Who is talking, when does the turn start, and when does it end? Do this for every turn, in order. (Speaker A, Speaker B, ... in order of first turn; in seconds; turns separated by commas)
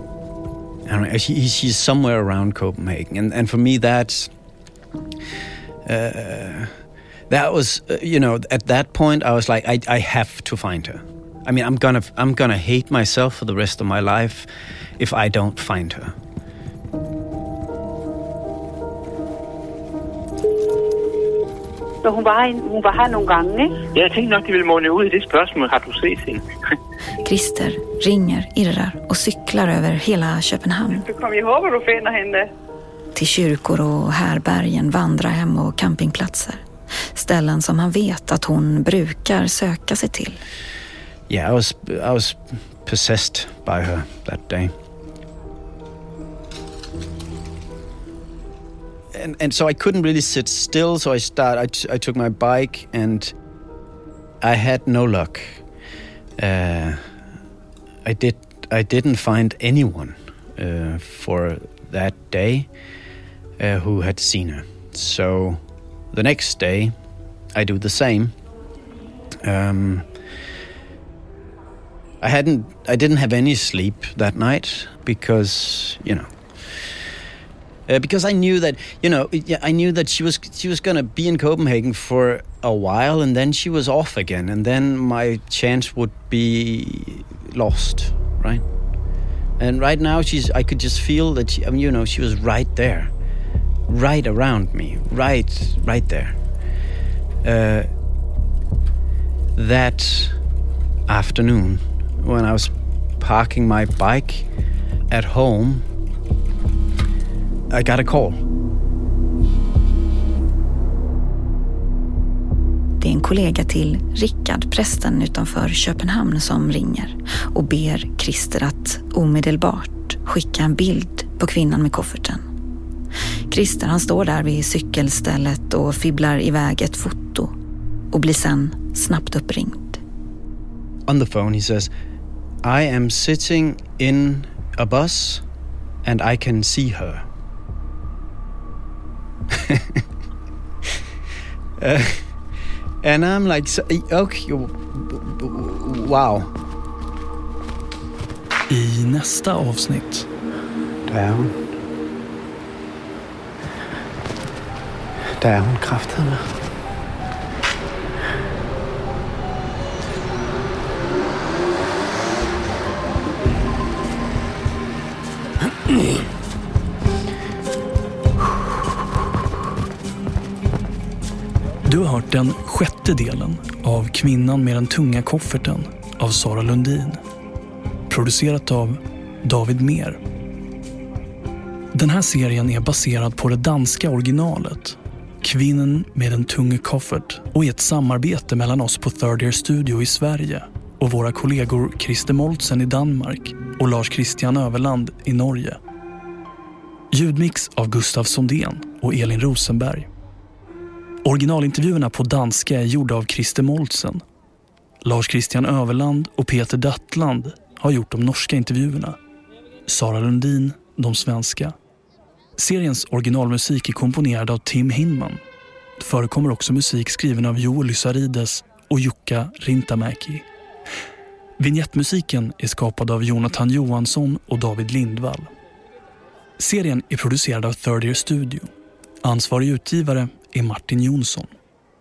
Speaker A: 0.8-4.3, Speaker A: 5.8-6.8, Speaker A: 7.3-16.1, Speaker B: 22.0-23.8, Speaker C: 23.9-26.4, Speaker D: 27.2-31.1, Speaker B: 30.9-32.5, Speaker D: 33.1-36.6, Speaker D: 37.1-40.4, Speaker A: 41.3-44.7, Speaker A: 49.1-53.3, Speaker A: 54.4-55.6, Speaker A: 56.4-57.0, Speaker A: 58.0-62.7, Speaker A: 63.6-66.9, Speaker A: 67.5-68.3, Speaker A: 69.4-70.1, Speaker A: 72.2-76.9, Speaker A: 77.9-88.6, Speaker A: 89.6-93.1, Speaker A: 93.9-96.3, Speaker A: 97.4-97.9, Speaker A: 99.5-100.4, Speaker A: 101.1-104.5, Speaker A: 105.1-105.8, Speaker A: 107.7-108.4, Speaker D: 113.0-122.4, Speaker D: 123.5-127.5, Speaker D: 128.1-130.0, Speaker A: 131.1-131.9, Speaker A: 132.6-135.4, Speaker A: 136.0-137.2, Speaker A: 139.5-140.0, Speaker A: 141.8-142.3, Speaker A: 143.0-146.5, Speaker E: 148.7-150.3, Speaker A: 151.1-151.6, Speaker A: 155.4-156.6, Speaker E: 171.8-177.2, Speaker E: 178.1-180.2, Speaker E: 181.9-195.8, Speaker E: 197.1-200.1, Speaker E: 201.2-204.2, Speaker E: 205.0-209.2, Speaker E: 209.9-211.8, Speaker E: 212.6-215.4, Speaker E: 216.0-220.5, Speaker E: 221.6-225.5, Speaker E: 226.6-228.7, Speaker E: 229.2-231.5